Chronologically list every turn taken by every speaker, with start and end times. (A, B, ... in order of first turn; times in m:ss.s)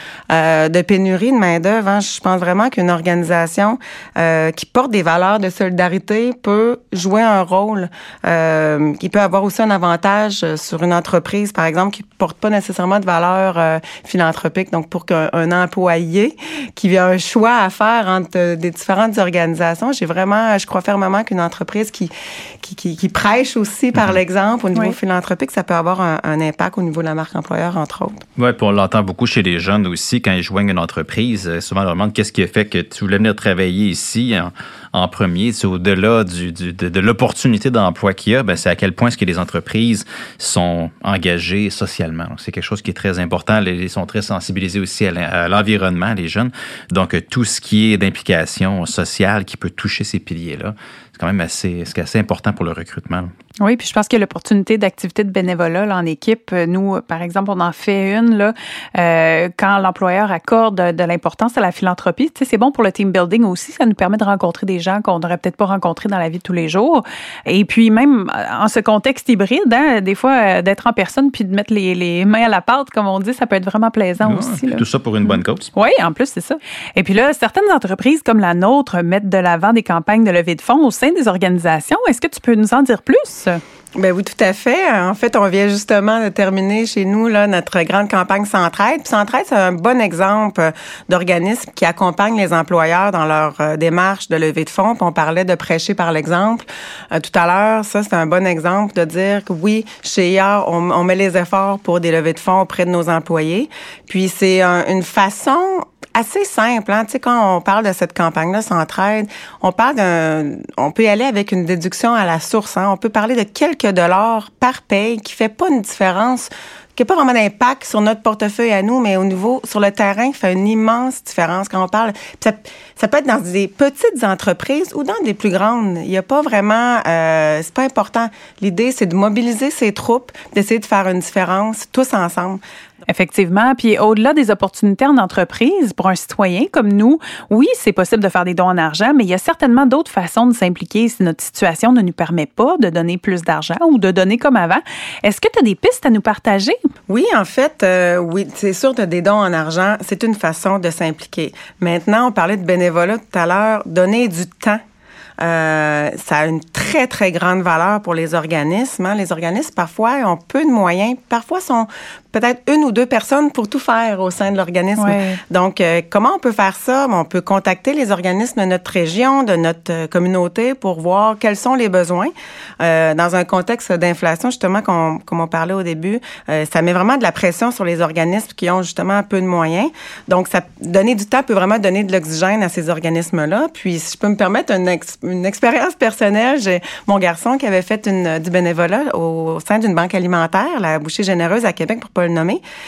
0:00.3-0:28.2 A
0:28.4-0:53.3 B
0:53.6-1:23.6 C
1:14.2-1:15.7 B
1:24.0-2:12.6 A
2:13.1-2:26.9 C
2:27.1-2:34.8 A
2:35.4-3:12.6 A
2:45.0-2:45.4 C